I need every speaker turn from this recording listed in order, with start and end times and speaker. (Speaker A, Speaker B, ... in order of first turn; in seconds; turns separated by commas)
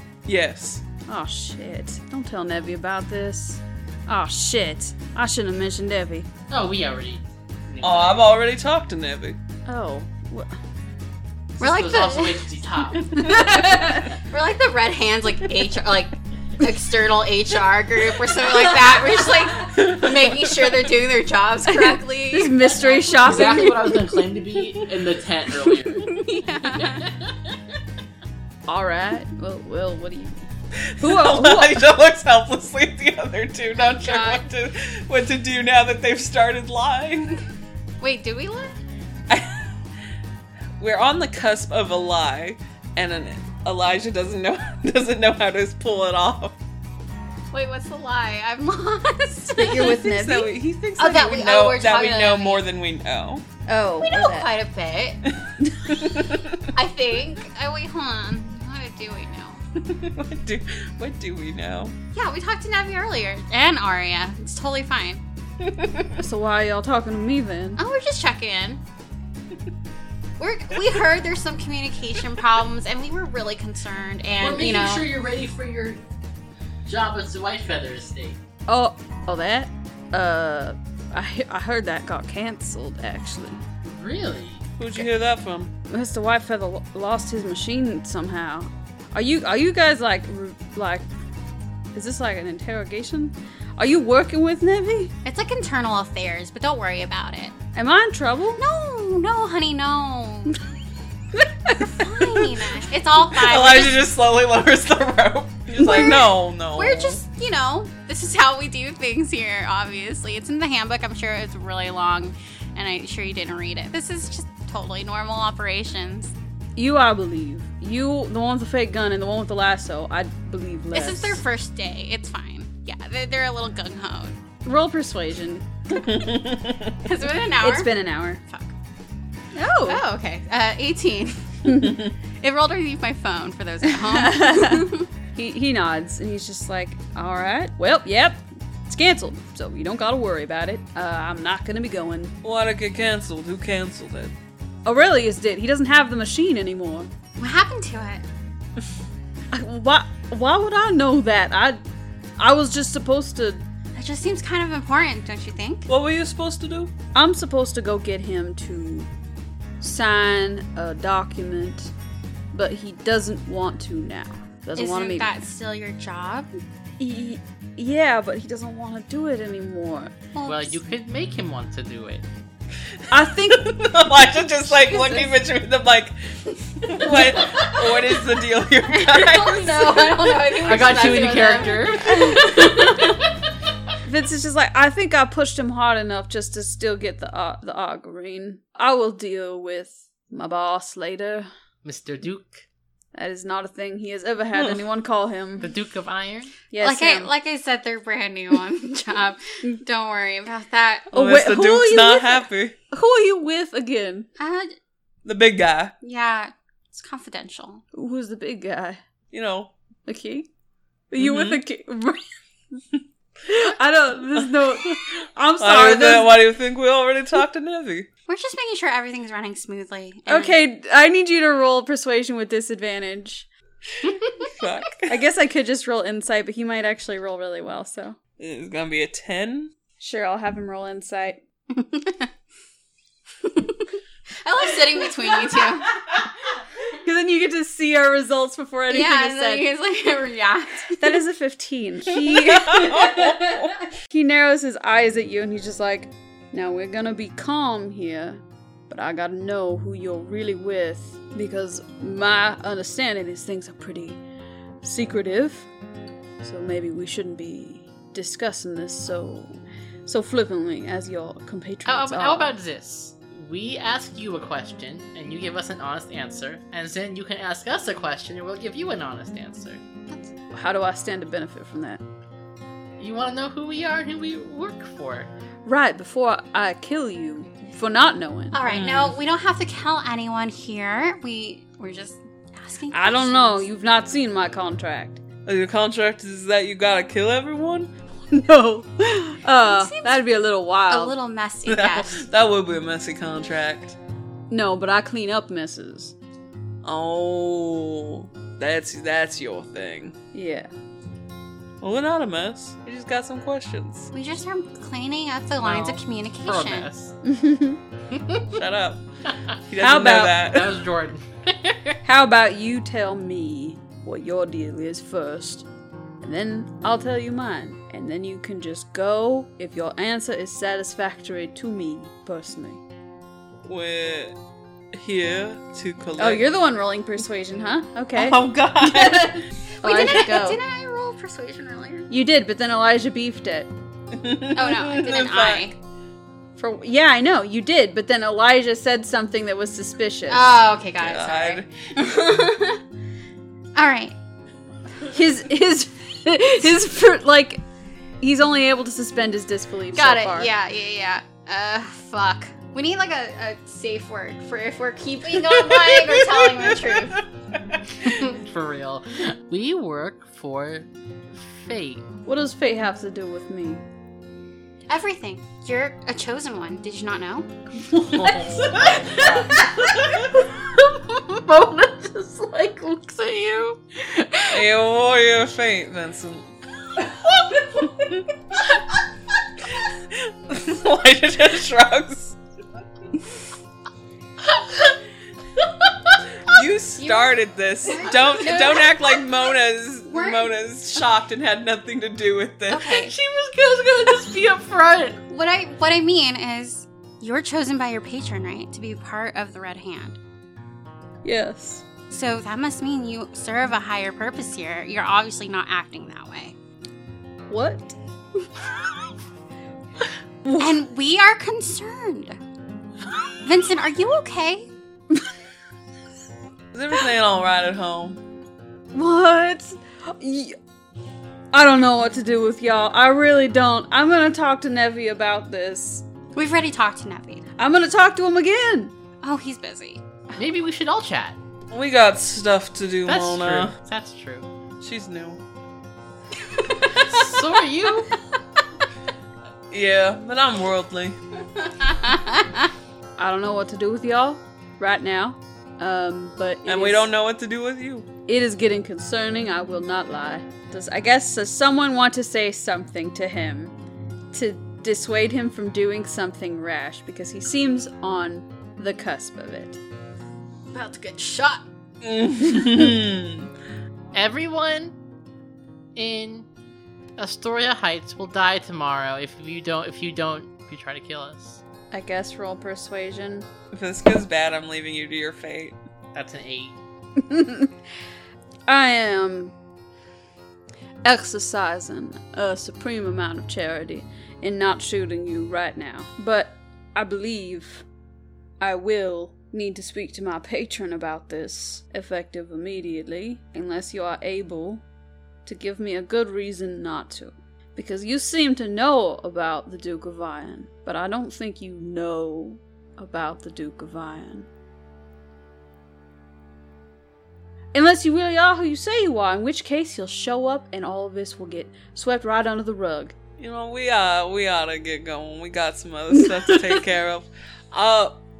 Speaker A: 0.2-0.8, Speaker B: 1.1-6.3, Speaker C: 6.5-8.2, Speaker A: 7.8-9.4, Speaker B: 9.7-10.5, Speaker D: 11.6-12.9, Speaker C: 11.6-13.1, Speaker B: 13.1-14.1, Speaker A: 13.2-13.5, Speaker D: 13.6-23.6, Speaker A: 19.7-20.7, Speaker B: 21.7-24.1, Speaker C: 23.2-26.2, Speaker D: 25.6-27.1, Speaker C: 26.7-27.5, Speaker B: 28.7-30.4, Speaker A: 30.9-37.4, Speaker B: 31.0-31.9, Speaker D: 33.8-34.4, Speaker D: 38.0-38.8, Speaker A: 39.3-39.7, Speaker A: 40.8-46.5, Speaker D: 47.5-50.0, Speaker B: 49.6-50.5, Speaker A: 49.7-53.4, Speaker D: 51.0-52.6, Speaker B: 53.7-54.5, Speaker D: 54.0-55.2, Speaker A: 55.3-56.6, Speaker D: 56.7-59.6, Speaker A: 59.8-61.9, Speaker D: 62.1-65.2, Speaker A: 65.6-66.2, Speaker B: 66.2-67.8, Speaker D: 67.8-68.8, Speaker D: 70.4-75.1, Speaker C: 74.4-76.0, Speaker C: 76.8-78.4, Speaker B: 78.7-83.6, Speaker C: 83.8-84.6, Speaker A: 84.8-85.7, Speaker B: 85.9-91.0, Speaker B: 91.9-95.1, Speaker D: 95.2-97.5, Speaker B: 97.7-98.6, Speaker D: 98.6-100.6, Speaker B: 101.4-101.9, Speaker D: 101.7-104.0, Speaker A: 103.3-107.2, Speaker D: 105.8-116.3, Speaker B: 116.8-121.4, Speaker D: 120.9-124.3, Speaker B: 124.6-126.0, Speaker A: 126.0-127.0, Speaker D: 127.0-127.9, Speaker B: 127.6-128.4, Speaker D: 128.5-128.7, Speaker B: 129.5-130.0, Speaker D: 129.8-131.6, Speaker B: 131.7-132.0, Speaker A: 131.8-132.1, Speaker D: 132.4-135.1, Speaker B: 133.9-142.3, Speaker A: 142.4-144.3, Speaker B: 144.8-147.1, Speaker D: 147.4-148.2, Speaker B: 149.5-151.8, Speaker B: 152.4-153.6, Speaker D: 153.9-155.9, Speaker A: 155.9-156.9, Speaker B: 157.1-159.1, Speaker B: 159.8-161.9, Speaker B: 162.5-165.3, Speaker D: 164.8-166.5, Speaker B: 167.0-170.1, Speaker D: 170.3-170.8, Speaker C: 170.4-172.2, Speaker B: 173.1-173.8, Speaker A: 173.5-180.5, Speaker D: 174.8-175.3, Speaker D: 176.9-178.3, Speaker D: 178.9-183.2, Speaker C: 180.6-183.2, Speaker B: 184.0-191.5, Speaker C: 191.8-192.6, Speaker B: 193.1-195.7, Speaker C: 195.6-196.5, Speaker B: 196.7-197.3, Speaker D: 196.8-201.1, Speaker A: 201.1-202.8, Speaker B: 201.1-204.3, Speaker D: 204.4-204.7, Speaker A: 205.2-205.9, Speaker D: 206.0-207.8, Speaker B: 207.9-209.0, Speaker A: 209.3-209.7, Speaker B: 210.1-210.5, Speaker B: 211.1-212.2, Speaker A: 211.2-211.6, Speaker B: 213.4-216.4, Speaker A: 214.4-215.0, Speaker A: 215.6-218.1, Speaker D: 218.3-220.6, Speaker B: 220.3-223.5, Speaker D: 224.1-224.5, Speaker A: 224.5-225.1, Speaker B: 225.1-228.2, Speaker A: 228.4-229.7, Speaker B: 230.0-231.4, Speaker D: 231.7-232.3, Speaker D: 233.4-233.9, Speaker D: 234.4-236.0, Speaker B: 237.0-239.6, Speaker D: 238.9-241.2, Speaker B: 241.0-254.2, Speaker A: 242.1-243.8, Speaker B: 254.8-255.7, Speaker B: 256.4-262.5, Speaker C: 261.8-269.8, Speaker B: 270.5-272.0, Speaker C: 273.0-275.3, Speaker B: 275.6-278.6, Speaker D: 278.5-283.6, Speaker C: 278.7-279.1, Speaker B: 282.9-285.2, Speaker A: 285.4-287.9, Speaker B: 288.3-291.1, Speaker D: 289.6-290.2, Speaker D: 290.9-292.2, Speaker A: 291.6-293.9, Speaker B: 294.5-296.1, Speaker A: 296.8-300.1, Speaker B: 300.3-300.7, Speaker A: 301.8-304.1, Speaker D: 304.1-306.9, Speaker C: 305.6-307.1, Speaker B: 307.2-307.8, Speaker D: 308.1-308.4, Speaker A: 308.5-309.0, Speaker A: 309.7-310.8, Speaker B: 309.8-310.4, Speaker C: 310.4-312.0, Speaker B: 312.0-315.6, Speaker B: 316.2-322.8, Speaker A: 323.6-324.3, Speaker A: 324.9-326.4, Speaker B: 326.2-330.6, Speaker A: 328.1-329.4, Speaker D: 329.8-332.1, Speaker B: 332.1-333.7, Speaker A: 334.1-335.7, Speaker D: 334.5-335.8, Speaker B: 336.6-340.6, Speaker D: 340.3-342.8, Speaker A: 341.0-341.7, Speaker D: 343.8-344.1, Speaker B: 345.1-347.6, Speaker B: 348.2-350.5, Speaker D: 349.9-357.2, Speaker A: 355.4-358.0, Speaker D: 358.0-358.4, Speaker C: 358.3-362.0, Speaker B: 362.2-363.8, Speaker D: 364.9-367.5, Speaker B: 367.9-369.4, Speaker C: 368.1-369.6, Speaker A: 369.8-370.2, Speaker C: 371.4-374.4, Speaker A: 374.5-376.5, Speaker A: 379.8-382.4, Speaker A: 386.4-393.0, Speaker D: 387.0-389.3, Speaker D: 390.1-390.5, Speaker D: 392.7-393.1, Speaker C: 393.0-395.2, Speaker D: 395.3-400.2, Speaker B: 401.2-401.8, Speaker D: 402.1-406.5, Speaker B: 407.5-407.9, Speaker B: 410.4-410.7, Speaker D: 410.6-412.4, Speaker D: 413.4-414.7, Speaker A: 416.7-418.2, Speaker B: 418.9-420.6, Speaker B: 421.5-426.0, Speaker D: 426.3-427.4, Speaker B: 427.6-428.9, Speaker D: 429.2-430.0, Speaker C: 430.4-431.4, Speaker A: 431.7-433.7, Speaker C: 433.1-434.5, Speaker A: 434.8-435.4, Speaker D: 436.5-437.4, Speaker C: 436.8-438.1, Speaker A: 439.7-441.2, Speaker D: 441.6-442.7, Speaker B: 443.2-447.1, Speaker A: 446.6-448.1, Speaker B: 448.3-453.7, Speaker B: 454.3-459.8, Speaker D: 460.7-461.6, Speaker A: 462.0-463.5, Speaker C: 464.1-464.9, Speaker C: 465.9-466.5, Speaker C: 467.2-471.6, Speaker B: 471.9-473.5, Speaker A: 473.7-475.8, Speaker C: 476.1-476.8, Speaker B: 477.2-477.7, Speaker B: 478.7-479.5, Speaker B: 481.0-487.8, Speaker B: 488.6-494.8, Speaker B: 495.4-504.5, Speaker B: 507.7-513.1, Speaker A: 513.4-518.2, Speaker B: 516.2-516.6